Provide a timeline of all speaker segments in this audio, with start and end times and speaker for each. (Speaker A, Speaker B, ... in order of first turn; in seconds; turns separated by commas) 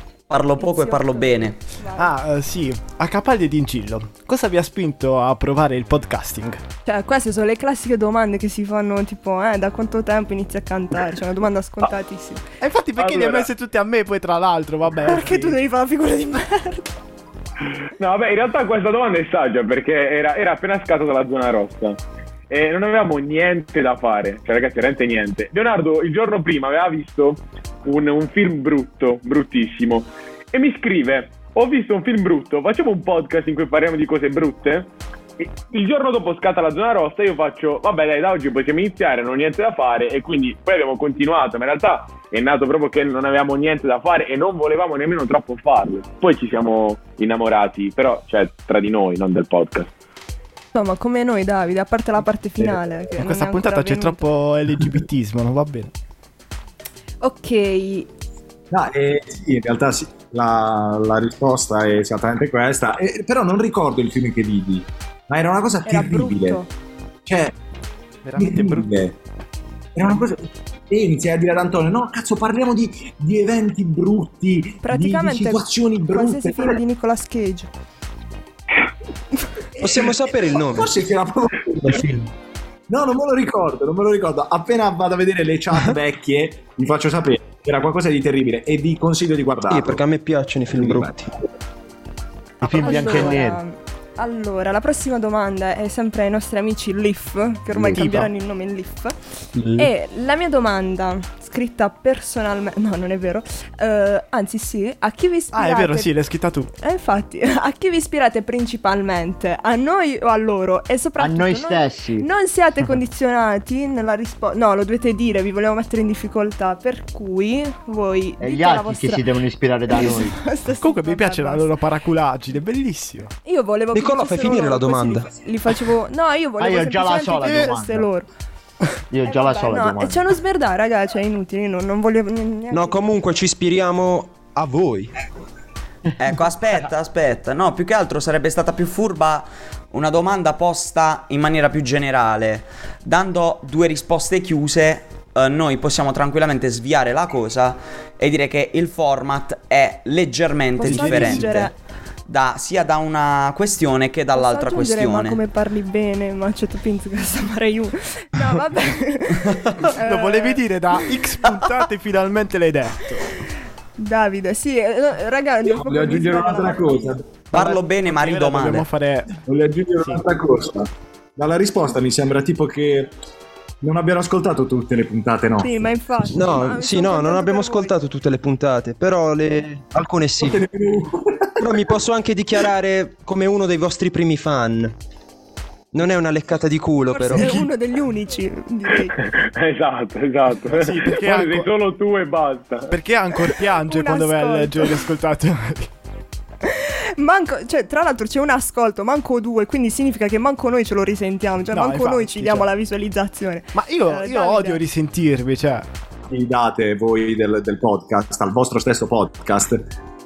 Speaker A: 0.3-1.6, Speaker B: 0.6-2.0, Speaker C: 2.0-6.6, Speaker B: 6.9-12.4, Speaker C: 12.6-15.6, Speaker D: 13.0-13.5, Speaker B: 15.0-16.9, Speaker D: 18.0-22.0, Speaker D: 22.5-49.9, Speaker B: 50.8-54.2, Speaker C: 53.2-55.9, Speaker B: 57.2-58.1, Speaker E: 58.7-66.6, Speaker B: 65.8-66.7, Speaker E: 67.3-67.5, Speaker C: 68.2-68.9, Speaker E: 68.4-69.2, Speaker E: 70.0-76.8, Speaker B: 74.8-77.7, Speaker E: 79.8-82.2, Speaker F: 79.8-80.9, Speaker F: 81.8-82.2, Speaker E: 82.9-90.0, Speaker F: 89.7-91.3, Speaker E: 90.7-91.2, Speaker G: 92.6-93.6, Speaker B: 92.7-99.2, Speaker C: 97.9-98.3, Speaker F: 99.6-99.9, Speaker B: 99.7-106.1, Speaker C: 105.5-106.7, Speaker B: 106.8-119.3, Speaker G: 111.2-112.3, Speaker G: 118.4-120.4, Speaker B: 119.9-121.7, Speaker C: 120.8-123.3, Speaker B: 123.5-128.3, Speaker F: 123.9-125.3, Speaker G: 126.6-128.1, Speaker G: 129.1-130.2, Speaker B: 129.2-133.0, Speaker F: 132.7-135.1, Speaker A: 136.2-151.7, Speaker B: 150.8-151.7, Speaker C: 150.8-151.6, Speaker A: 152.3-155.4, Speaker B: 154.3-160.6, Speaker A: 159.4-159.9, Speaker C: 159.9-163.3, Speaker B: 164.0-167.2, Speaker E: 165.7-167.4, Speaker A: 167.5-168.9, Speaker C: 167.5-169.4, Speaker E: 169.5-173.2, Speaker E: 173.8-175.9, Speaker B: 175.6-177.9, Speaker F: 176.3-180.6, Speaker E: 180.4-181.9, Speaker F: 181.6-184.9, Speaker F: 185.9-187.5, Speaker B: 187.1-189.2, Speaker C: 187.3-187.7, Speaker D: 189.2-192.9, Speaker C: 190.7-191.7, Speaker C: 192.9-195.9, Speaker B: 193.8-195.0, Speaker B: 196.6-204.8, Speaker C: 201.7-202.7, Speaker C: 203.7-205.9, Speaker E: 206.3-209.9